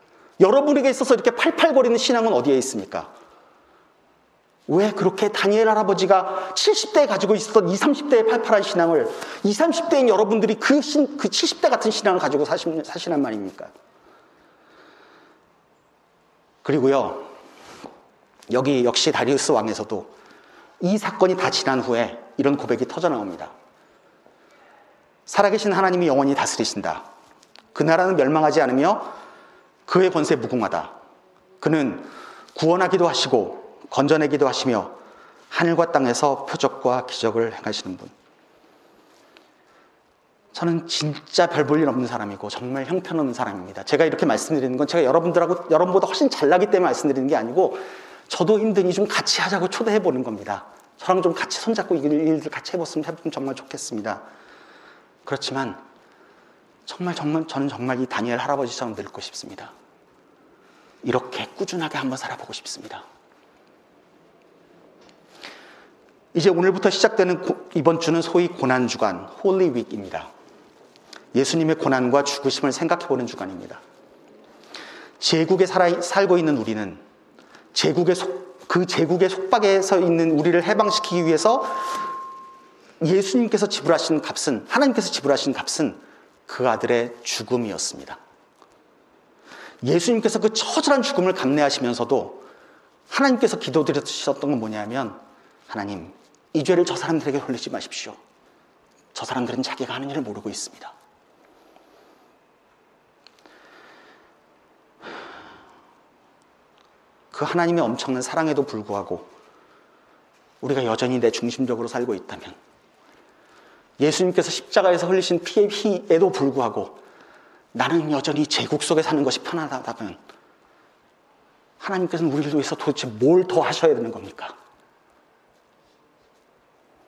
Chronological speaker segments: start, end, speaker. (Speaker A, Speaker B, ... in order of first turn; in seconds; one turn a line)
Speaker A: 0.4-3.1
Speaker A: 4.7-13.7
Speaker A: 16.6-17.3
Speaker A: 18.5-20.1
Speaker A: 20.8-23.5
Speaker A: 25.3-27.1
Speaker A: 27.7-29.1
Speaker A: 29.9-30.9
Speaker A: 31.6-35.0
Speaker A: 35.5-38.1
Speaker A: 40.5-54.2
Speaker A: 55.2-55.8
Speaker A: 56.9-59.7
Speaker A: 61.0-63.0
Speaker A: 66.3-70.3
Speaker A: 71.3-73.8
Speaker A: 75.2-77.0
Speaker A: 77.7-82.1
Speaker A: 83.0-88.2
Speaker A: 89.8-92.5
Speaker A: 93.1-98.2
Speaker A: 99.1-100.9
Speaker A: 107.3-109.3
Speaker A: 110.6-112.6
Speaker A: 114.0-117.0
Speaker A: 117.7-120.2
Speaker A: 121.8-124.5